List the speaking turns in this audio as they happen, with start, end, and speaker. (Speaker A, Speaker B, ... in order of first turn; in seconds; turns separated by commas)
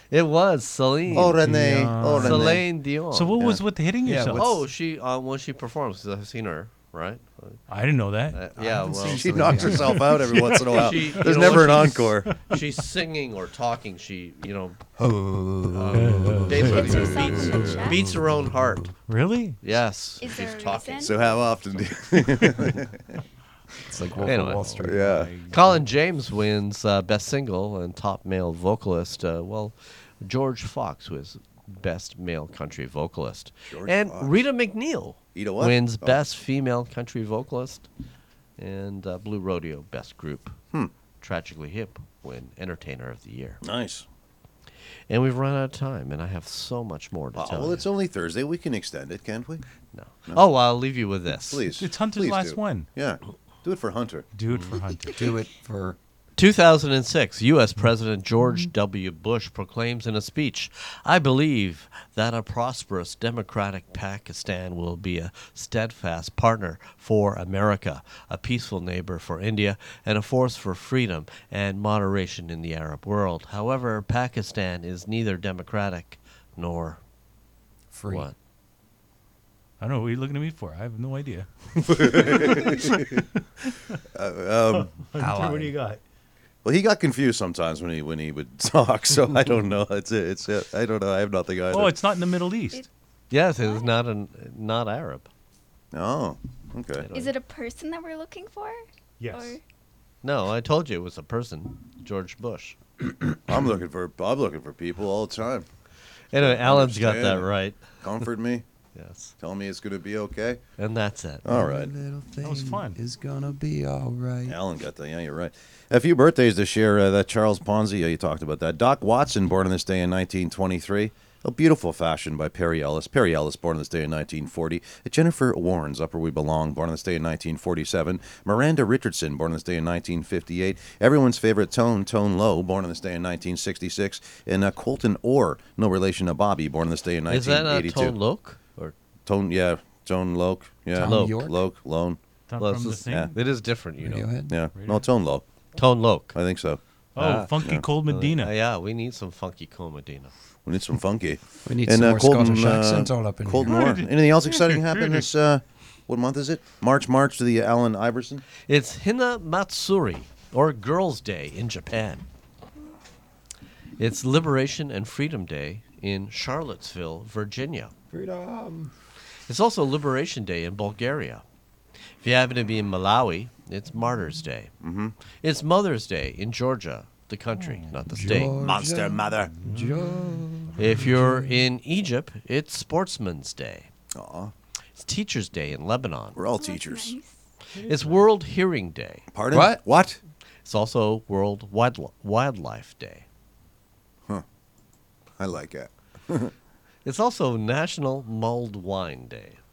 Speaker A: 0.1-1.4, Speaker B: 1.1-2.6, Speaker C: 1.4-4.4, Speaker D: 2.1-2.6, Speaker A: 2.1-3.4, Speaker D: 4.0-4.7, Speaker A: 4.3-7.6, Speaker C: 7.7-8.4, Speaker A: 8.3-9.7, Speaker D: 8.6-10.1, Speaker B: 9.1-12.3, Speaker C: 9.5-12.1, Speaker A: 10.5-14.8, Speaker D: 15.0-18.5, Speaker A: 15.7-18.9, Speaker C: 15.9-17.1, Speaker E: 16.5-18.1, Speaker B: 16.9-17.8, Speaker C: 19.1-19.6, Speaker A: 19.6-21.9, Speaker E: 20.2-21.1, Speaker B: 21.0-23.2, Speaker D: 23.9-25.3, Speaker C: 24.1-25.8, Speaker A: 24.2-24.9, Speaker B: 24.8-25.3, Speaker A: 25.5-37.9, Speaker B: 33.7-34.4, Speaker B: 35.3-36.2, Speaker A: 38.6-40.6, Speaker A: 41.2-43.6, Speaker B: 43.6-44.0, Speaker A: 45.1-47.9, Speaker B: 47.3-49.6, Speaker A: 49.9-51.6, Speaker B: 51.4-54.3, Speaker C: 51.8-52.9, Speaker C: 54.3-55.2, Speaker D: 55.1-56.0, Speaker A: 56.4-77.0, Speaker D: 77.9-78.2, Speaker A: 78.1-78.3, Speaker C: 79.8-84.0, Speaker B: 81.8-83.2, Speaker B: 84.1-84.9, Speaker C: 84.7-86.0, Speaker D: 85.2-85.7, Speaker B: 86.6-91.9, Speaker C: 91.7-92.9, Speaker A: 93.3-95.3, Speaker E: 93.6-93.9, Speaker B: 95.9-97.1, Speaker A: 97.0-97.3, Speaker E: 97.1-99.6, Speaker C: 99.2-99.6, Speaker A: 100.2-102.8, Speaker B: 103.5-105.7, Speaker A: 106.3-108.2, Speaker B: 106.4-108.6, Speaker A: 108.9-109.3, Speaker B: 109.4-110.6, Speaker A: 110.8-111.4, Speaker B: 111.4-111.9, Speaker D: 111.4-114.6, Speaker C: 112.4-113.0, Speaker B: 114.5-138.2, Speaker A: 137.3-138.9, Speaker B: 139.2-142.2, Speaker D: 140.9-141.6, Speaker C: 142.5-143.3, Speaker A: 142.6-144.3, Speaker D: 144.0-144.6, Speaker B: 144.5-145.4, Speaker C: 144.7-145.1, Speaker A: 145.8-146.3, Speaker B: 146.3-146.8, Speaker C: 147.1-148.5, Speaker D: 147.2-147.5, Speaker A: 148.1-150.3, Speaker B: 150.6-158.4, Speaker D: 151.6-153.8, Speaker C: 153.6-155.3, Speaker A: 158.7-162.2, Speaker A: 164.0-167.9, Speaker D: 168.1-168.9, Speaker A: 169.5-171.4, Speaker A: 172.2-174.7, Speaker B: 174.8-175.1, Speaker A: 175.3-178.6, Speaker C: 177.5-177.9, Speaker D: 178.1-181.6, Speaker B: 178.5-179.5, Speaker C: 179.5-181.2, Speaker A: 180.8-183.9, Speaker B: 184.1-184.5, Speaker A: 184.9-186.4, Speaker B: 186.3-187.2, Speaker E: 186.5-187.4, Speaker C: 187.7-188.3, Speaker A: 187.8-189.3, Speaker B: 189.3-190.2, Speaker D: 189.5-189.8, Speaker A: 190.6-193.2, Speaker B: 195.4-196.5, Speaker A: 197.0-199.6